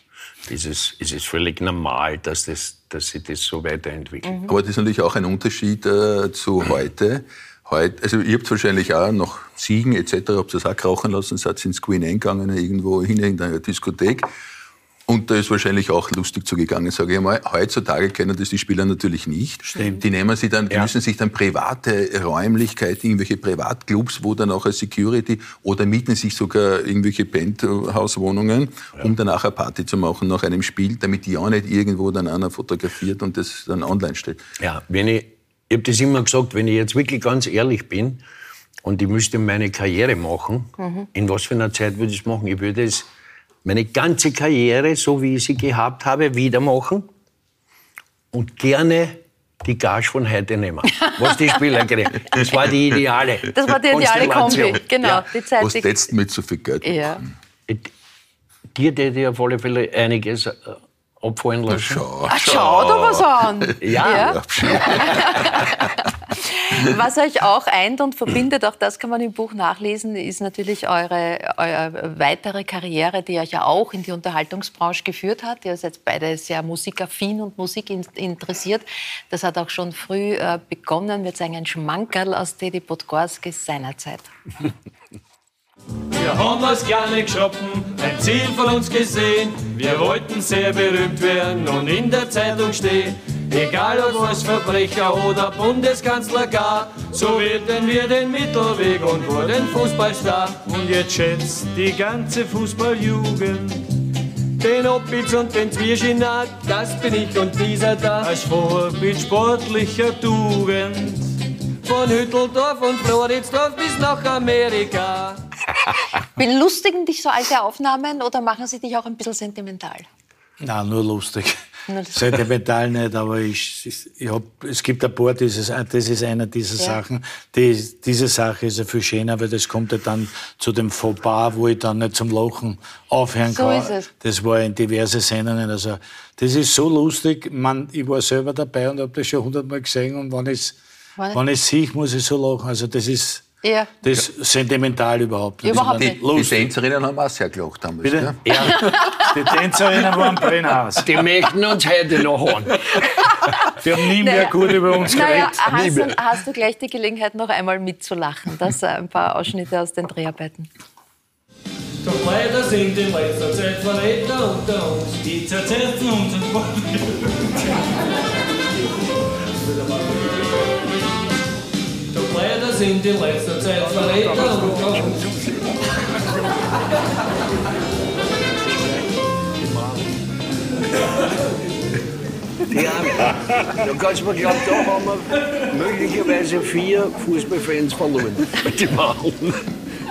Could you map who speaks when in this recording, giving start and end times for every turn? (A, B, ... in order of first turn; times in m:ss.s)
0:00.5-0:04.4 A
0:04.2-0:04.5 B
0:04.5-0:14.3 C
0:15.1-0:34.4 C
0:19.7-0:20.0 D
0:34.6-0:38.2 A
0:38.8-0:43.1 A
0:40.8-0:41.1 B
0:43.6-0:47.1 A
0:48.3-0:55.2 A
0:53.5-0:56.0 B
0:55.6-0:57.3 C
0:56.8-0:57.2 B
0:58.7-1:02.0 A
1:01.7-1:05.9 C
1:02.3-1:24.3 B
1:03.8-1:05.1 A
1:26.1-1:44.0 E
1:44.6-1:55.4 E
1:56.4-2:00.1 B
2:00.6-2:01.6 D
2:01.9-2:02.3 B
2:02.1-2:20.8 D
2:13.5-2:14.1 B
2:21.3-2:23.5 D
2:23.6-2:23.9 B
2:24.0-2:26.7 D
2:25.6-2:26.2 B
2:25.7-2:29.0 C
2:28.0-2:31.2 D
2:28.8-2:29.2 B
2:31.0-2:33.0 A
2:33.5-2:40.7 B
2:33.8-2:35.6 D
2:35.1-2:36.2 A
2:42.0-2:46.1 E
2:45.3-2:47.3 D
2:49.9-2:50.3 E
2:52.1-2:55.4 E
2:59.6-3:00.1 A
3:02.7-3:09.7 A